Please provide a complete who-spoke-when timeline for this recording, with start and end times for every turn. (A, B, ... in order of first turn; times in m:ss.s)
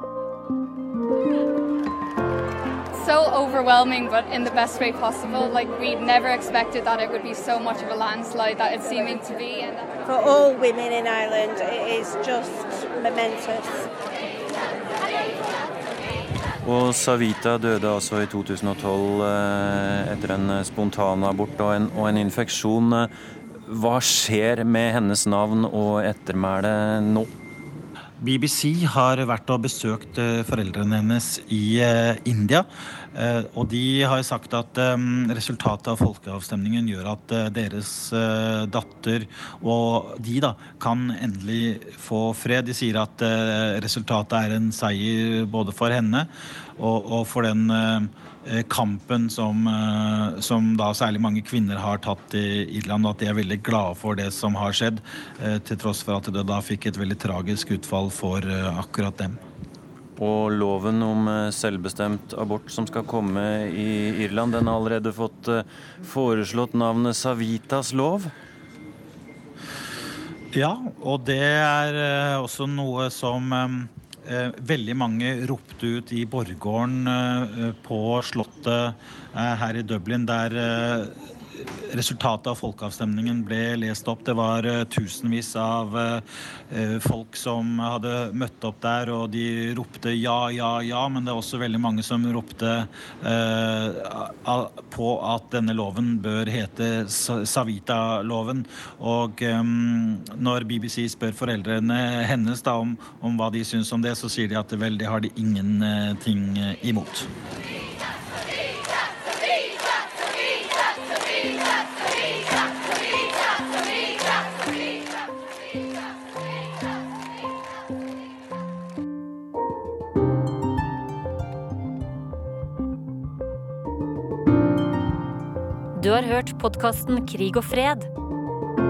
0:02.9-0:09.8 A
0:10.1-0:13.9 B
0:16.6-0:23.1 C
0:23.7-0:27.3 C
0:28.2-0:59.4 D
1:00.2-1:08.3 C
1:10.5-1:47.3 D
2:06.0-2:08.1 E